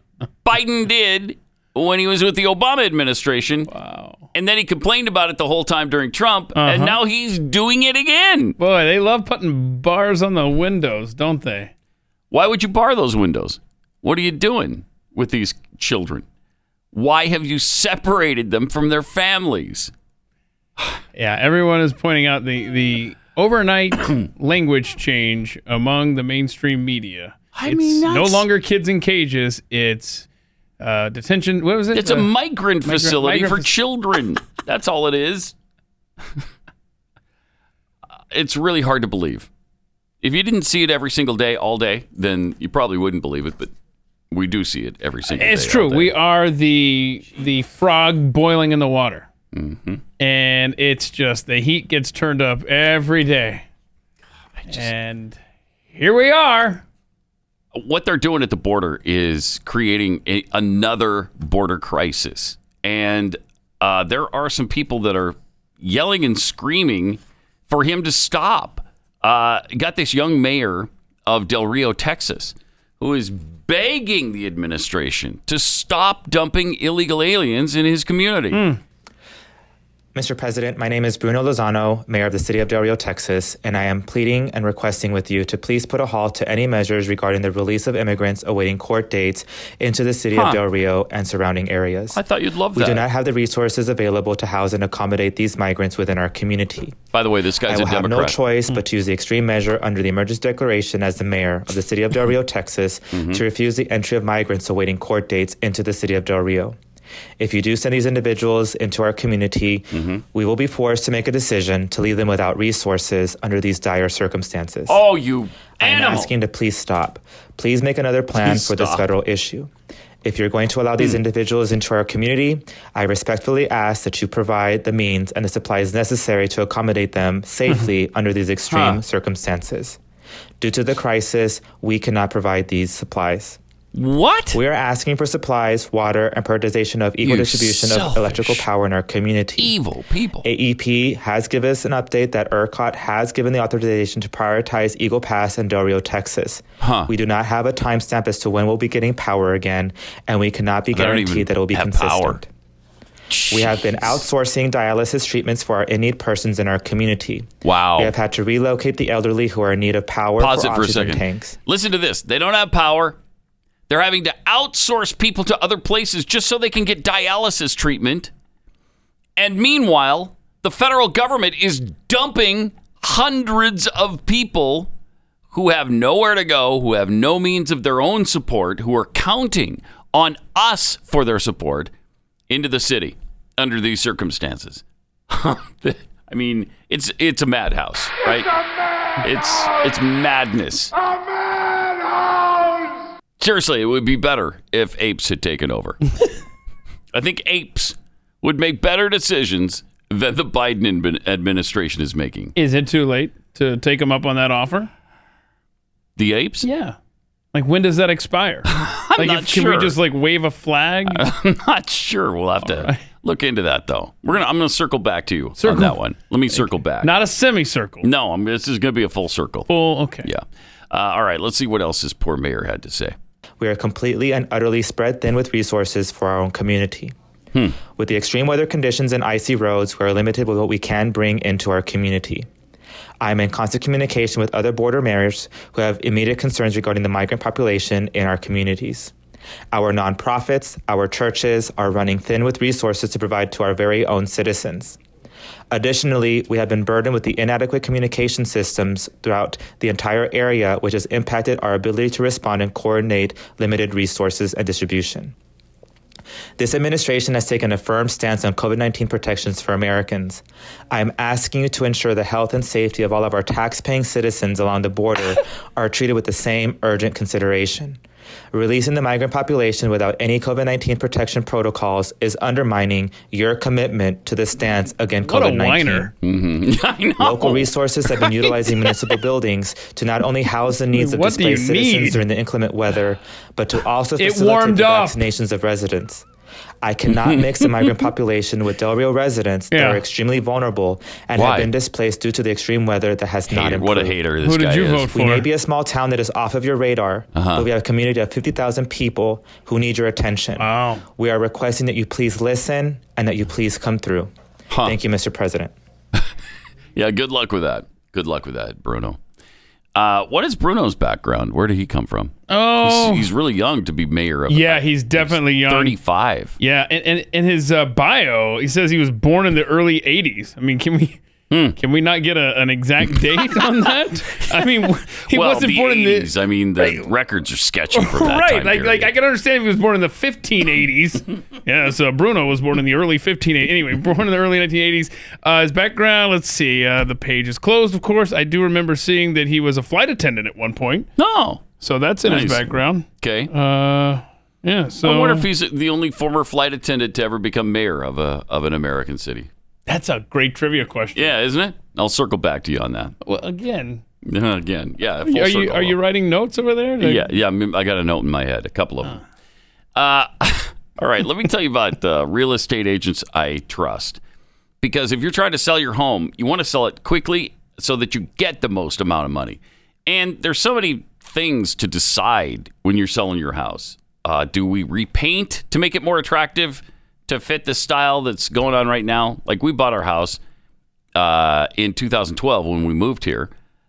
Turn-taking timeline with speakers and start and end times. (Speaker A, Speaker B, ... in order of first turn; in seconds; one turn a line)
Speaker A: 0.4-3.7
Speaker B: 3.7-4.3
Speaker A: 4.3-8.6
Speaker B: 6.5-7.0
Speaker B: 8.6-11.7
Speaker A: 12.3-16.2
Speaker A: 16.9-19.9
Speaker B: 21.1-30.3
Speaker A: 27.5-28.4
Speaker B: 30.8-32.3
Speaker A: 31.9-35.5
Speaker B: 32.8-33.7
Speaker A: 38.3-39.5
Speaker A: 40.2-43.7
Speaker A: 44.3-46.1
Speaker B: 45.3-49.3
Speaker A: 49.5-50.0
Speaker B: 50.2-53.6
Speaker A: 54.6-54.9
Speaker B: 54.7-55.4
Speaker B: 55.9-56.8
Speaker A: 57.7-78.6
Speaker B: 78.5-78.8
Speaker C: 80.1-92.2
Speaker A: 90.3-90.6
Speaker A: 92.1-93.1
Speaker C: 92.7-97.0
Speaker A: 97.1-98.4
Speaker C: 97.7-106.8
Speaker A: 103.1-103.4
Speaker C: 107.4-115.0
Speaker A: 109.9-110.2
Speaker A: 114.9-116.3
Speaker C: 115.8-119.7
Speaker A: 118.4-119.0
Speaker C: 120.2-130.0
Speaker C: 130.6-133.6
Speaker A: 133.9-134.6
Speaker C: 134.5-139.7
Speaker A: 137.2-138.7
Speaker A: 139.6-140.5
Speaker C: 140.4-152.5
Speaker A: 146.8-147.1
Speaker A: 150.9-152.4
Speaker A: 153.3-154.2
Speaker C: 153.5-161.6
Speaker A: 157.6-158.1
Speaker A: 160.4-163.2
Speaker A: 163.9-168.3
Speaker A: 169.4-174.9
Speaker A: 175.5-181.9
Speaker A: 182.5-188.5
Speaker A: 189.2-190.9
Speaker A: 193.4-196.0
Speaker A: 197.1-202.5
Speaker B: 202.6-204.9
Speaker A: 206.2-206.7
Speaker B: 206.6-206.9
Speaker B: 207.5-211.2
Speaker A: 208.7-209.9
Speaker A: 211.1-217.1
Speaker B: 212.6-213.0
Speaker B: 215.6-215.9
Speaker B: 216.5-218.1
Speaker A: 218.0-219.7
Speaker B: 219.7-220.3
Speaker A: 220.2-223.1
Speaker C: 223.6-227.1
Speaker C: 227.9-232.5
Speaker C: 233.2-239.1
Speaker C: 239.7-245.0
Speaker C: 245.7-255.3
Speaker C: 256.6-268.0
Speaker C: 268.5-276.1
Speaker B: 275.2-276.1
Speaker A: 276.2-278.5
Speaker C: 277.2-286.2
Speaker B: 280.9-282.2
Speaker B: 284.2-285.2
Speaker C: 286.8-294.2
Speaker A: 287.1-287.6
Speaker B: 289.7-290.0
Speaker A: 291.3-291.7
Speaker A: 293.5-295.1
Speaker B: 294.4-295.5
Speaker C: 295.1-304.3
Speaker A: 297.3-297.6
Speaker B: 300.6-301.0
Speaker A: 304.7-304.9
Speaker C: 304.8-305.7
Speaker A: 306.9-309.2
Speaker A: 309.9-316.6
Speaker B: 312.5-313.3
Speaker B: 314.5-315.9
Speaker B: 316.6-321.2
Speaker A: 321.5-321.8
Speaker B: 321.8-327.1
Speaker A: 325.3-329.1
Speaker B: 327.9-341.1
Speaker A: 341.2-341.7
Speaker B: 341.8-345.5
Speaker A: 342.2-343.5
Speaker A: 345.0-349.5
Speaker B: 349.9-351.3
Speaker A: 351.1-353.1
Speaker B: 353.2-354.0
Speaker A: 354.2-356.0
Speaker B: 355.2-357.3
Speaker A: 357.0-359.2
Speaker A: 359.9-364.2
Speaker A: 364.8-380.4
Speaker A: 381.1-383.5